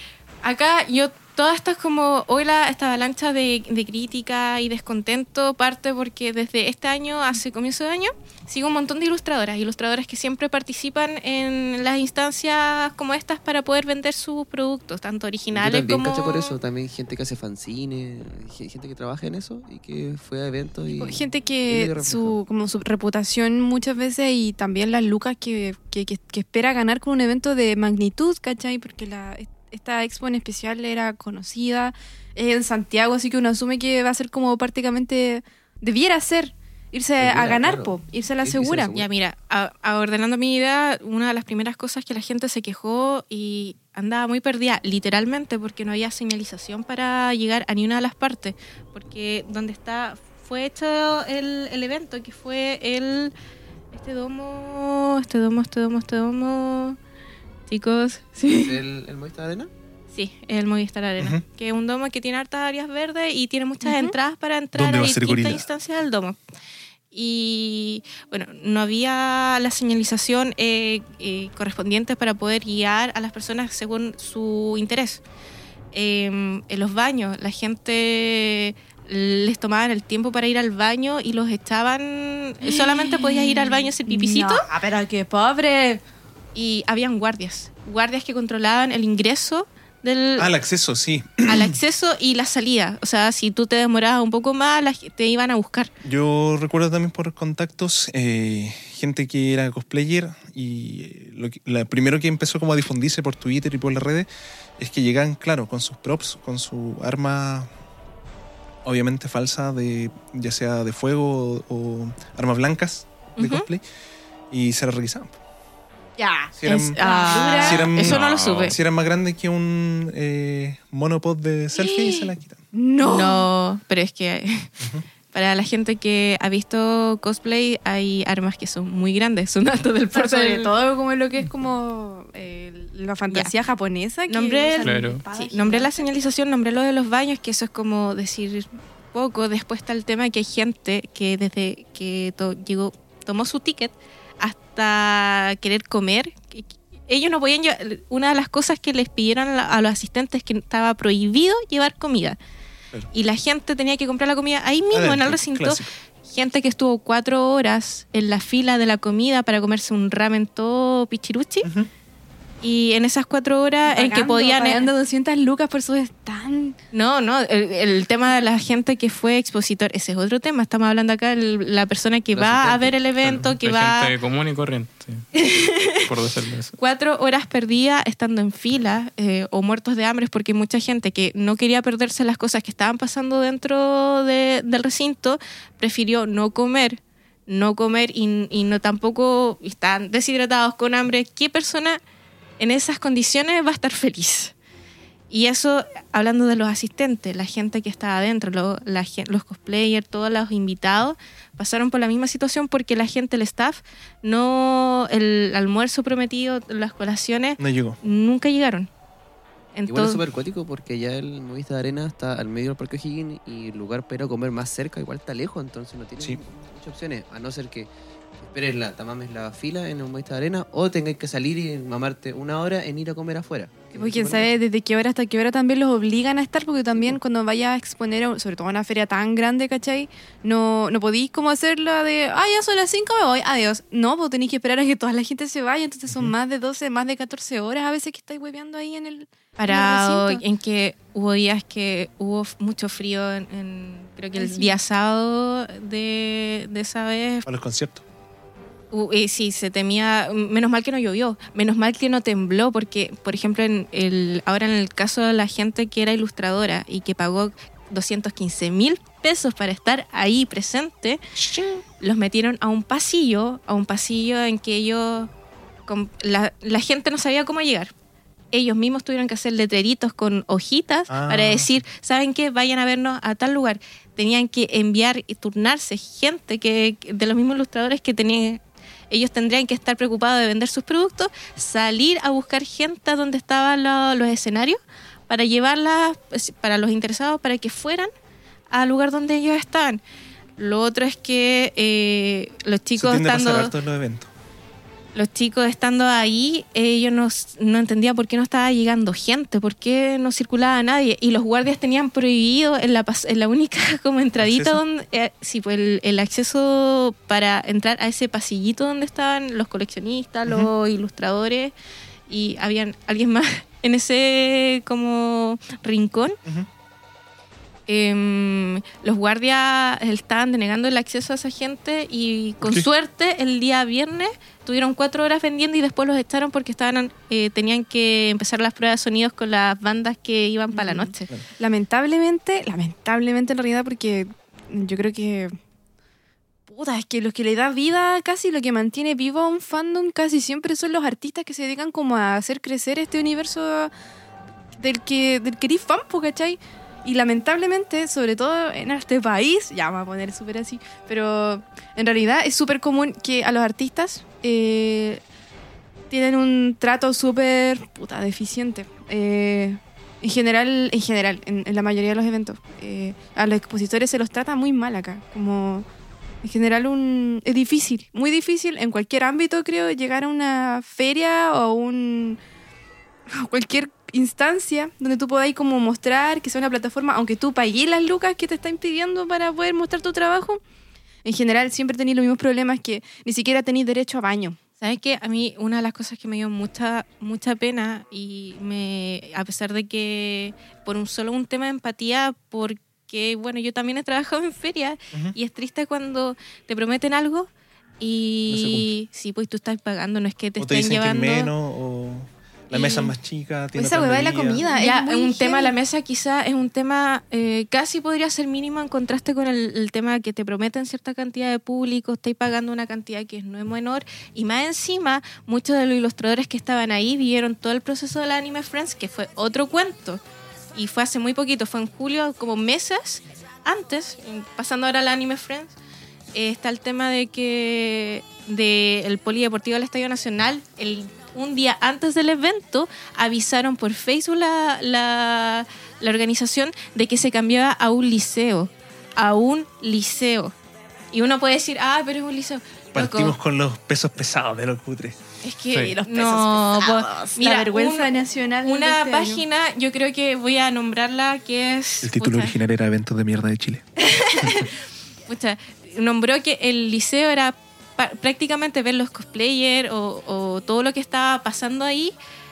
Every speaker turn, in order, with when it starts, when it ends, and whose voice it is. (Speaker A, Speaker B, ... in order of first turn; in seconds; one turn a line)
Speaker A: 0.4-16.6
Speaker B: 15.5-22.4
Speaker C: 21.0-39.0
Speaker B: 37.2-39.0
Speaker A: 38.9-53.3
Speaker A: 53.9-57.0
Speaker A: 57.7-58.8
Speaker B: 58.5-59.7
Speaker A: 60.1-66.4
Speaker C: 63.8-64.2
Speaker D: 64.7-65.7
Speaker A: 67.1-75.2
Speaker A: 75.9-84.7
Speaker C: 82.6-86.0
Speaker A: 86.5-90.5
Speaker D: 90.4-91.8
Speaker A: 91.5-95.9
Speaker D: 96.0-107.7
Speaker D: 108.8-113.8
Speaker A: 113.4-113.7
Speaker D: 114.5-115.4
Speaker C: 116.2-117.9
Speaker D: 116.6-117.0
Speaker A: 116.6-118.8
Speaker D: 117.5-122.6
Speaker E: 118.0-118.7
Speaker A: 121.8-122.3
Speaker C: 122.7-123.5
Speaker A: 123.0-124.7
Speaker A: 125.3-130.7
Speaker C: 130.1-136.1
Speaker A: 133.3-133.5
Speaker A: 134.3-152.4
Speaker E: 134.8-135.2
Speaker A: 153.1-161.7
Speaker D: 154.9-155.9
Speaker D: 161.6-161.9
Speaker A: 162.6-164.8
Speaker C: 163.8-166.8
Speaker A: 166.9-174.1
Speaker B: 172.3-172.9
Speaker E: 173.2-175.3
Speaker A: 175.3-176.0
Speaker E: 176.0-176.7
Speaker A: 176.8-192.0
Speaker A: 192.6-194.5
Speaker A: 195.3-208.9
Speaker D: 207.6-208.0
Speaker A: 209.7-210.2
Speaker B: 209.9-224.5
Speaker C: 223.9-240.4
Speaker A: 239.6-247.4
Speaker C: 244.3-244.7
Speaker D: 247.4-248.0
Speaker A: 248.9-261.2
Speaker D: 261.4-261.8
Speaker A: 262.0-265.3
Speaker A: 265.9-267.9
Speaker A: 268.5-288.1
Speaker D: 271.1-271.8
Speaker A: 288.7-290.0
Speaker A: 290.6-293.7
Speaker D: 292.9-294.3
Speaker A: 295.1-311.7
Speaker D: 304.4-304.8
Speaker A: 312.3-316.4
Speaker A: 317.9-331.3
Speaker C: 330.7-335.5
Speaker C: 336.7-343.9
Speaker C: 344.8-355.2
Speaker C: 356.1-365.9
Speaker C: 366.4-372.4
Speaker C: 373.3-380.6
Speaker C: 381.2-384.6
Speaker A: 384.8-401.5
Speaker D: 398.5-398.9
Speaker D: 400.6-404.6
Speaker A: 402.7-403.1
Speaker C: 403.7-405.7
Speaker A: 404.7-420.2
Speaker A: 420.7-425.8
Speaker A: 426.3-440.5
Speaker A: 441.1-443.4
Speaker D: 442.9-445.2
Speaker A: 445.4-452.5
Speaker C: 445.7-449.4
Speaker D: 452.0-453.8
Speaker A: 454.0-454.7
Speaker A: 455.3-462.1